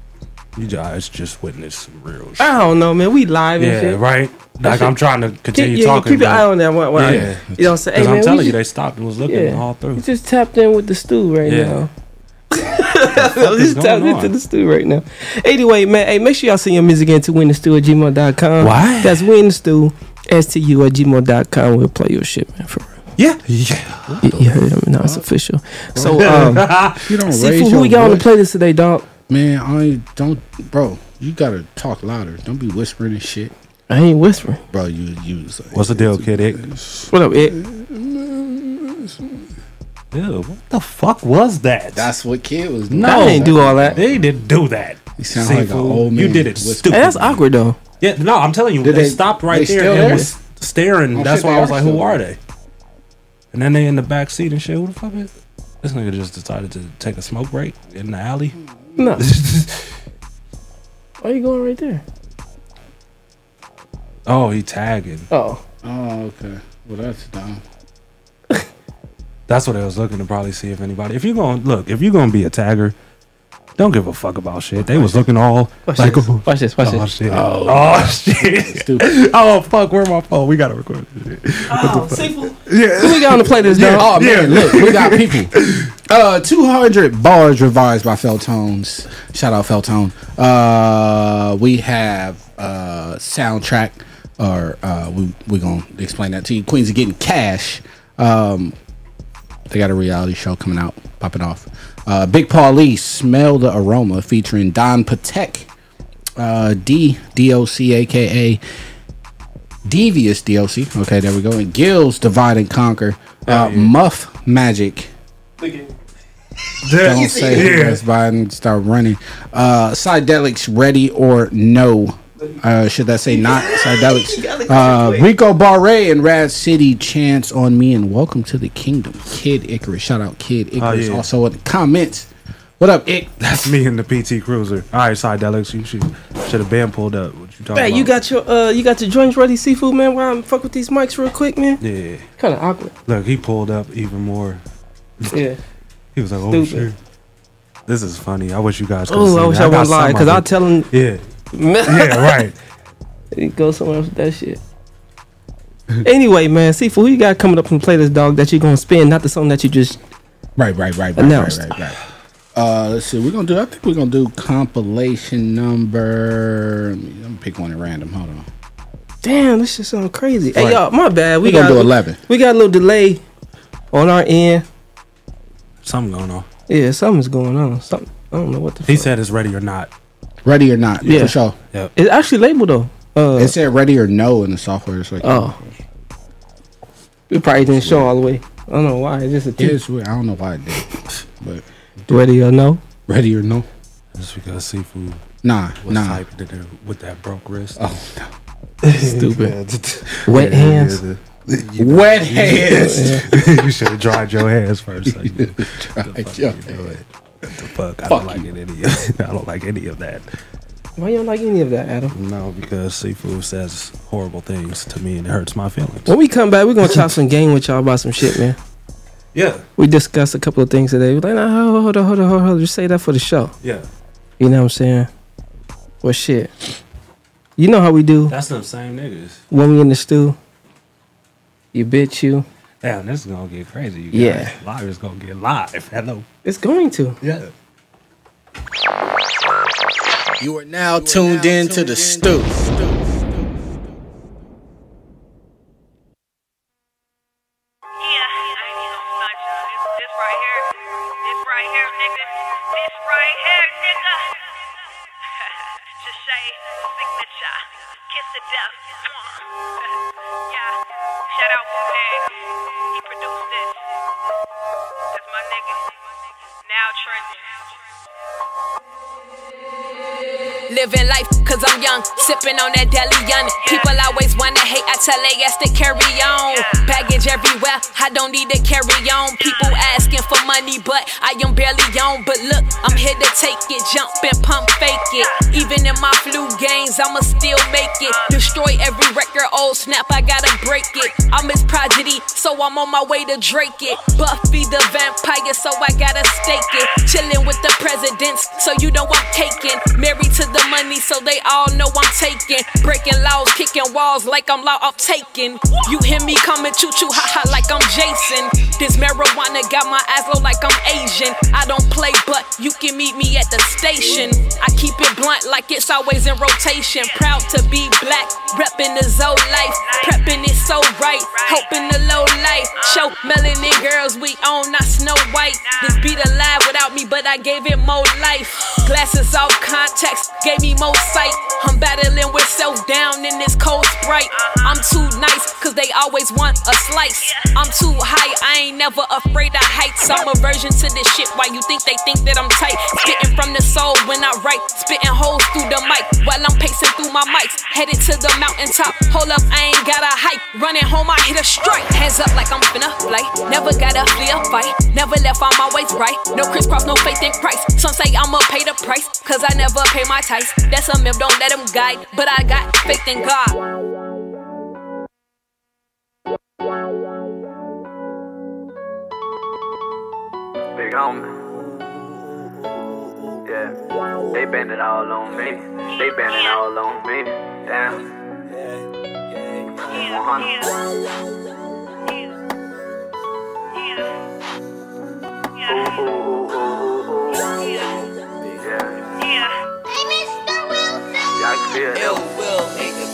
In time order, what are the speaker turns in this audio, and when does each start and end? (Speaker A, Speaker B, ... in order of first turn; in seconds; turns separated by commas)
Speaker A: 0.6-2.6, Speaker B: 2.4-4.0, Speaker A: 3.6-10.1, Speaker B: 4.7-5.0, Speaker B: 5.5-8.6, Speaker C: 7.0-7.6, Speaker B: 9.3-11.9, Speaker A: 11.4-11.9, Speaker B: 12.5-23.0, Speaker A: 12.9-14.3, Speaker A: 18.6-19.2, Speaker A: 23.2-24.2, Speaker C: 24.1-25.2, Speaker B: 24.2-26.7, Speaker A: 26.0-27.1, Speaker C: 26.1-26.5, Speaker C: 27.0-28.3, Speaker B: 27.3-29.1, Speaker C: 29.3-33.5, Speaker B: 33.9-34.6, Speaker C: 34.7-36.8, Speaker A: 35.7-37.1, Speaker B: 37.1-37.6, Speaker C: 37.4-39.2, Speaker A: 40.1-42.1, Speaker C: 41.9-44.3, Speaker A: 42.9-47.3, Speaker B: 43.0-44.0, Speaker C: 45.2-47.4, Speaker B: 46.9-47.8, Speaker A: 48.0-52.4, Speaker C: 48.8-50.3, Speaker C: 51.1-52.2, Speaker A: 53.5-55.3, Speaker A: 55.8-58.5, Speaker C: 58.5-59.0, Speaker B: 59.0-59.3, Speaker A: 59.2-60.0, Speaker B: 61.2-62.0, Speaker A: 64.3-65.3, Speaker B: 65.3-65.6, Speaker C: 65.8-67.6, Speaker A: 69.5-73.0, Speaker A: 73.8-85.9, Speaker C: 74.8-75.3, Speaker B: 75.9-77.1, Speaker C: 77.3-79.2, Speaker B: 81.7-84.2, Speaker C: 83.8-85.5, Speaker C: 86.1-98.8, Speaker C: 99.7-105.7, Speaker C: 106.4-108.6, Speaker C: 109.9-115.1, Speaker A: 113.5-113.9, Speaker B: 115.6-115.9, Speaker A: 116.8-118.0, Speaker C: 117.0-133.3, Speaker B: 117.1-117.8, Speaker B: 123.3-125.3, Speaker A: 130.8-131.3, Speaker A: 133.4-138.1, Speaker B: 137.7-141.8, Speaker A: 141.8-142.3, Speaker B: 142.4-142.9, Speaker A: 143.1-144.6, Speaker B: 145.3-145.6, Speaker A: 146.2-147.0, Speaker B: 146.5-146.9, Speaker A: 147.9-151.2, Speaker B: 149.1-150.9, Speaker B: 151.5-152.4, Speaker A: 151.8-152.6, Speaker B: 153.3-154.6, Speaker B: 156.0-160.0, Speaker C: 160.6-162.0, Speaker B: 161.2-161.7, Speaker C: 162.5-168.5, Speaker B: 169.2-173.2, Speaker A: 170.6-170.8, Speaker C: 171.4-172.2, Speaker B: 173.9-174.7, Speaker A: 175.8-176.5, Speaker B: 176.7-179.1, Speaker A: 178.9-179.9, Speaker C: 180.4-181.6, Speaker B: 181.0-181.4, Speaker A: 181.1-181.9, Speaker B: 182.0-183.6, Speaker C: 183.4-185.7, Speaker B: 185.2-185.6, Speaker B: 187.3-189.8, Speaker C: 187.7-188.1, Speaker C: 189.6-192.2, Speaker B: 192.1-192.8, Speaker C: 193.1-193.7, Speaker A: 194.2-195.2, Speaker C: 195.4-196.2, Speaker A: 195.8-197.8, Speaker C: 197.8-198.3, Speaker A: 198.8-210.3, Speaker B: 199.0-199.6, Speaker B: 200.3-201.0, Speaker C: 201.8-203.4, Speaker B: 202.7-203.2, Speaker C: 205.1-207.0, Speaker C: 208.1-208.5, Speaker B: 211.0-212.2, Speaker A: 212.1-216.1, Speaker B: 216.1-218.6, Speaker A: 216.8-217.1, Speaker A: 219.3-219.6, Speaker B: 219.8-223.6, Speaker A: 223.6-223.9, Speaker B: 224.4-225.1, Speaker B: 226.0-226.5, Speaker B: 227.6-228.3, Speaker A: 228.3-229.4, Speaker B: 229.5-230.4, Speaker B: 231.7-232.5, Speaker A: 232.8-236.3, Speaker B: 234.1-234.6, Speaker B: 236.4-237.2, Speaker A: 237.2-237.5, Speaker C: 240.4-242.7, Speaker D: 248.0-254.7, Speaker D: 255.4-263.9, Speaker D: 265.1-266.1, Speaker D: 266.6-267.9, Speaker E: 270.7-363.6, Speaker D: 273.6-274.0, Speaker D: 276.5-277.0, Speaker D: 279.4-279.8, Speaker D: 285.2-285.5, Speaker D: 288.1-288.4, Speaker D: 317.0-317.3, Speaker D: 319.8-320.5, Speaker D: 321.3-322.0, Speaker D: 322.8-323.2, Speaker D: 325.6-326.1, Speaker D: 334.3-334.9, Speaker D: 337.2-337.6, Speaker F: 370.8-371.2, Speaker F: 374.4-375.6, Speaker D: 375.8-376.7, Speaker F: 376.5-378.0, Speaker D: 379.9-380.7, Speaker F: 380.1-380.4, Speaker D: 382.1-382.3, Speaker D: 383.7-384.2, Speaker D: 385.6-386.2, Speaker F: 386.0-387.4, Speaker D: 387.3-388.1, Speaker F: 388.6-388.9, Speaker D: 389.2-389.6, Speaker F: 391.4-392.3